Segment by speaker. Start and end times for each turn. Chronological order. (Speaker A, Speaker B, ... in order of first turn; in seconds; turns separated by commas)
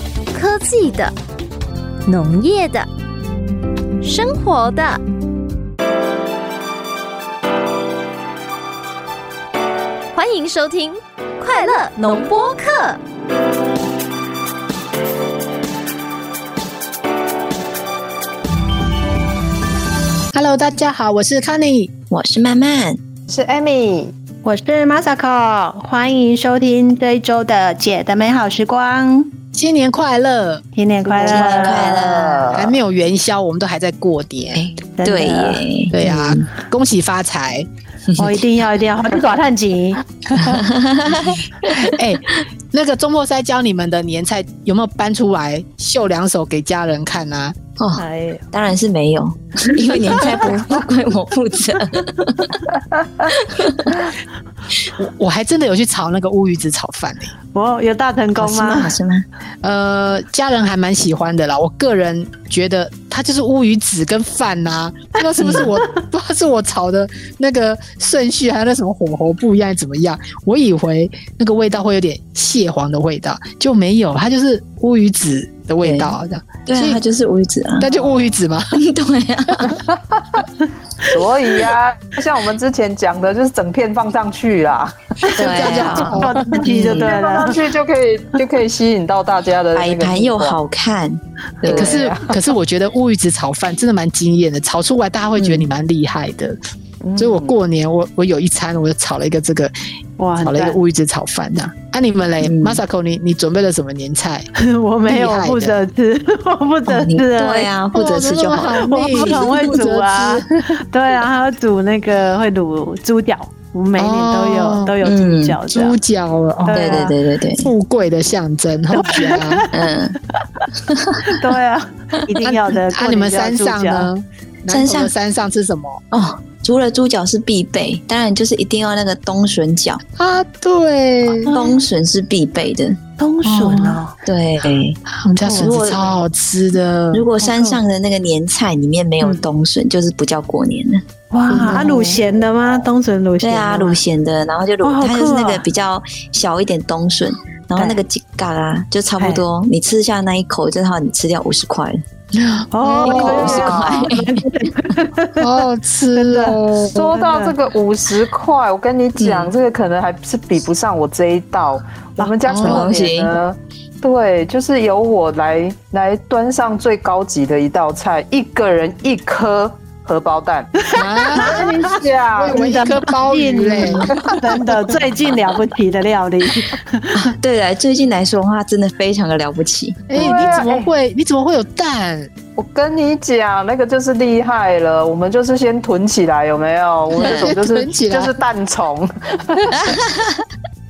Speaker A: 0.3-1.1, Speaker A: 2.1-2.9, Speaker A: 4.0-5.0, Speaker A: 10.2-13.0, Speaker B: 20.3-21.9, Speaker C: 22.1-23.0, Speaker D: 23.3-24.1, Speaker E: 24.4-29.4, Speaker B: 29.5-30.6, Speaker E: 30.8-32.0, Speaker D: 31.1-32.8, Speaker C: 31.2-32.6, Speaker B: 32.5-34.6, Speaker C: 34.5-36.5, Speaker E: 35.0-35.6, Speaker B: 35.9-37.7, Speaker C: 38.1-38.4, Speaker E: 38.2-40.6, Speaker C: 40.4-42.0, Speaker B: 41.1-47.5, Speaker C: 47.8-52.6, Speaker E: 48.0-48.5, Speaker C: 53.3-54.1, Speaker B: 55.0-57.3, Speaker E: 57.5-59.0, Speaker C: 58.4-59.2, Speaker B: 59.6-77.0, Speaker C: 65.4-65.7, Speaker C: 75.8-76.1, Speaker C: 76.7-77.9, Speaker B: 77.8-78.8, Speaker C: 78.7-79.8, Speaker D: 81.0-85.3, Speaker E: 85.3-87.6, Speaker B: 85.3-86.6, Speaker C: 85.3-87.2, Speaker D: 86.8-90.6, Speaker C: 89.8-92.0, Speaker D: 91.6-92.4, Speaker B: 91.6-96.6, Speaker C: 95.4-95.7, Speaker D: 97.0-97.6, Speaker B: 97.2-99.7, Speaker E: 100.2-100.8, Speaker B: 100.4-104.5, Speaker C: 102.4-102.8, Speaker E: 104.5-107.7, Speaker B: 105.1-105.8, Speaker C: 106.9-109.8, Speaker B: 107.9-110.6, Speaker E: 108.8-116.0, Speaker B: 114.0-114.9, Speaker C: 115.0-115.6, Speaker B: 115.7-119.7, Speaker E: 116.7-117.1, Speaker C: 116.7-117.7, Speaker E: 118.9-119.7, Speaker C: 119.7-120.2, Speaker E: 120.3-120.6, Speaker C: 120.8-121.4, Speaker E: 121.2-124.1, Speaker B: 122.4-126.0, Speaker C: 124.7-125.1, Speaker C: 126.1-130.0, Speaker B: 130.2-131.5, Speaker C: 131.5-133.0, Speaker E: 131.5-131.8, Speaker E: 133.2-134.2, Speaker B: 133.4-134.0, Speaker C: 134.2-135.0, Speaker B: 135.1-137.3, Speaker E: 135.5-135.8, Speaker C: 135.6-136.1, Speaker C: 137.1-142.2, Speaker E: 137.4-137.8, Speaker E: 141.3-144.0, Speaker C: 143.4-152.0, Speaker E: 144.8-145.7, Speaker E: 147.7-148.0, Speaker E: 149.2-149.4, Speaker B: 152.4-153.7, Speaker E: 152.7-157.6, Speaker C: 153.0-154.4, Speaker D: 153.0-154.1, Speaker B: 155.4-156.9, Speaker D: 156.9-172.8, Speaker C: 159.2-159.5, Speaker B: 162.5-162.9, Speaker C: 162.6-163.3, Speaker E: 170.9-171.9, Speaker B: 171.0-171.7, Speaker B: 172.4-174.4, Speaker E: 172.5-177.2, Speaker C: 177.1-180.3, Speaker B: 180.1-182.3, Speaker D: 180.2-180.9, Speaker D: 182.6-189.9, Speaker B: 187.2-188.4, Speaker C: 187.2-187.5, Speaker C: 189.8-190.3